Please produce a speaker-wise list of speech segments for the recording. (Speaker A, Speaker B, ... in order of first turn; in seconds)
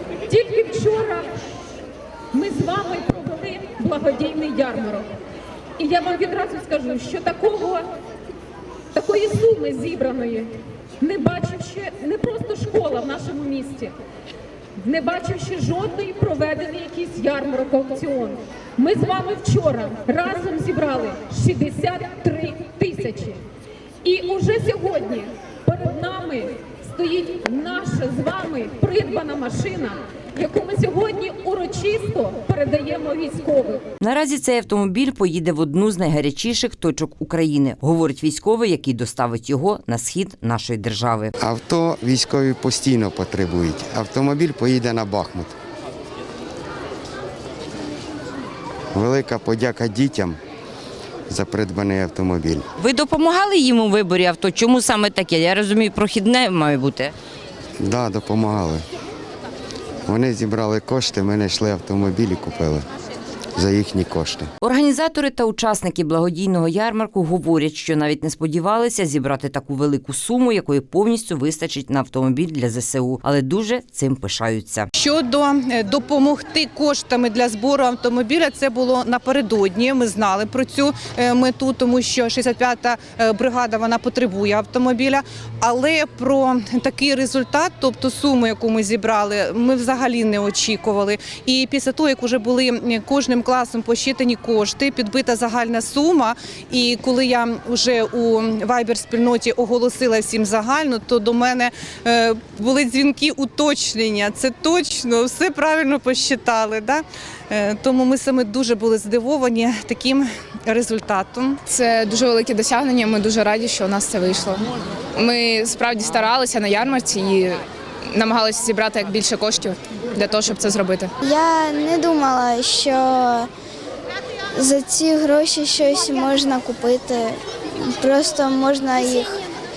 Speaker A: 0.3-1.3, 2.3-5.1, 5.8-7.8, 8.9-13.9, 14.8-23.4, 24.0-33.8
Speaker B: 34.0-41.3, 52.8-57.1, 64.6-74.9
Speaker C: 41.4-45.5, 48.9-50.4, 51.3-52.6, 57.8-58.8, 60.1-62.9, 63.5-64.5
Speaker D: 75.0-111.6
Speaker E: 111.7-114.7, 115.2-121.1
Speaker F: 121.2-123.5, 124.5-129.4